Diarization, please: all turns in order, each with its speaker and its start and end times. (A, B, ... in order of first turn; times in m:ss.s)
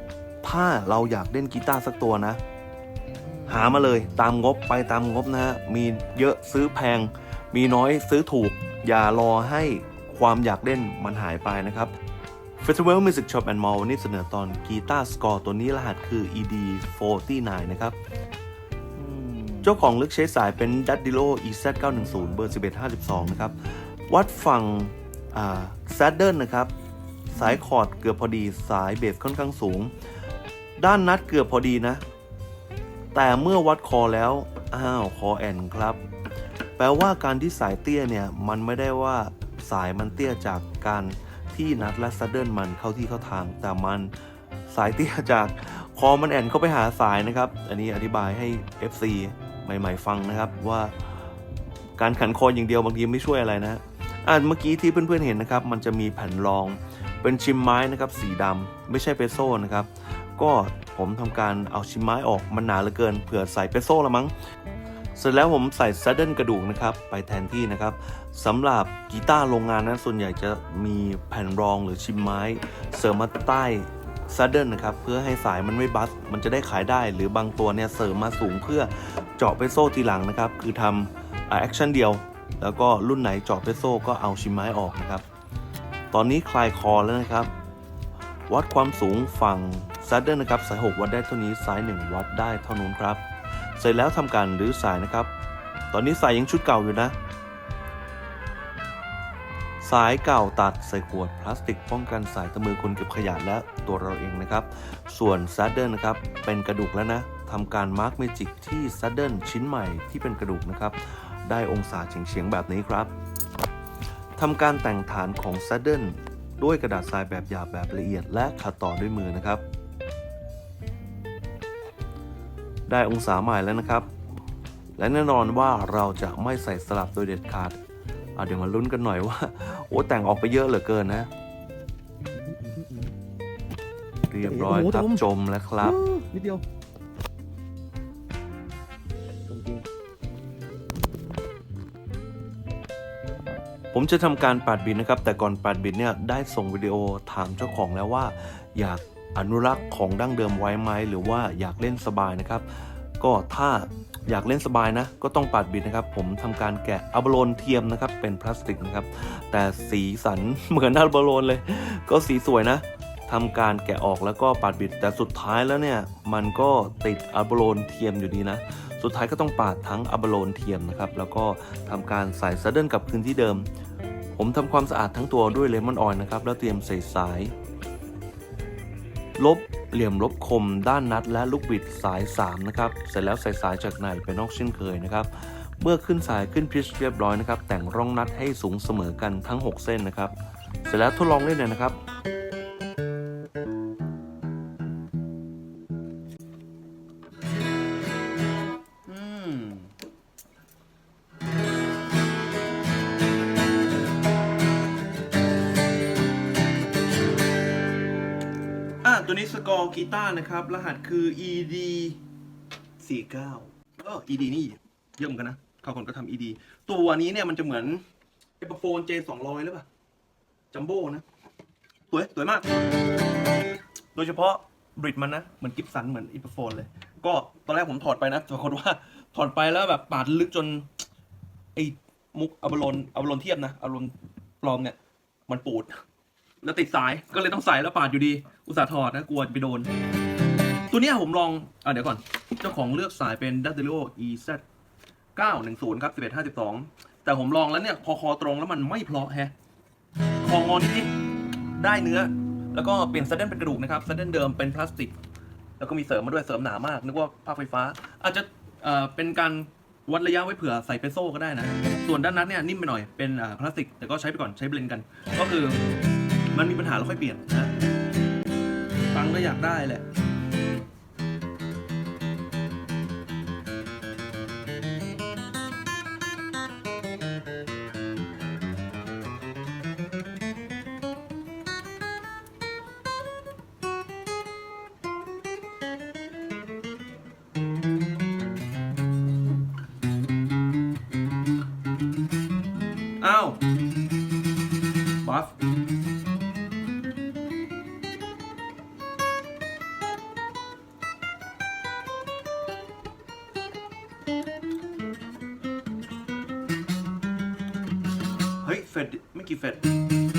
0:00.4-0:02.4 A
0:03.4-0:11.9 A
0:12.6-0:18.0 A
0:19.0-0:19.6 B
0:19.6-0:26.7 A
0:27.3-0:29.9 A
0:30.8-0:32.0 A
0:33.1-0:36.0 A
0:36.8-0:44.1 A
0:44.7-0:51.2 A
0:52.0-1:04.3 A
1:05.2-1:25.2 A
1:26.1-1:27.5 A
1:28.5-1:33.2 A
1:33.8-1:35.3 A
1:35.9-1:37.1 A
1:39.8-1:53.1 A
1:54.4-1:59.6 A
2:02.9-2:04.1 A
2:05.0-2:07.8 A
2:08.4-2:11.3 A
2:12.5-2:13.1 B
2:14.3-2:16.0 A
2:14.5-2:15.2 B
2:15.8-2:16.6 B
2:19.5-2:19.8 B
2:23.9-2:53.6 A
2:54.4-2:57.5 A
2:59.4-3:10.3 A
3:10.8-3:12.0 A
3:19.1-3:19.9 B
3:29.0-3:32.2 A
3:33.0-3:38.0 A
3:38.6-3:39.8 A
3:40.7-3:41.0 B
3:40.7-3:41.2 A
3:42.1-3:42.6 A
3:44.2-3:50.8 A
3:50.0-3:50.3 B
3:51.8-3:54.1 A
3:54.6-3:54.9 A
3:55.5-3:55.9 A
3:56.6-3:59.9 A
3:58.1-3:59.2 B
4:00.9-4:04.6 A
4:05.4-4:09.5 A
4:07.3-4:07.9 B
4:08.6-4:08.9 B
4:10.4-4:11.1 A
4:11.8-4:15.1 A
4:15.8-4:25.8 A
4:26.5-4:27.7 A
4:29.1-4:30.0 A
4:53.2-4:53.6 A
4:55.2-4:55.5 A
5:08.6-5:09.8 A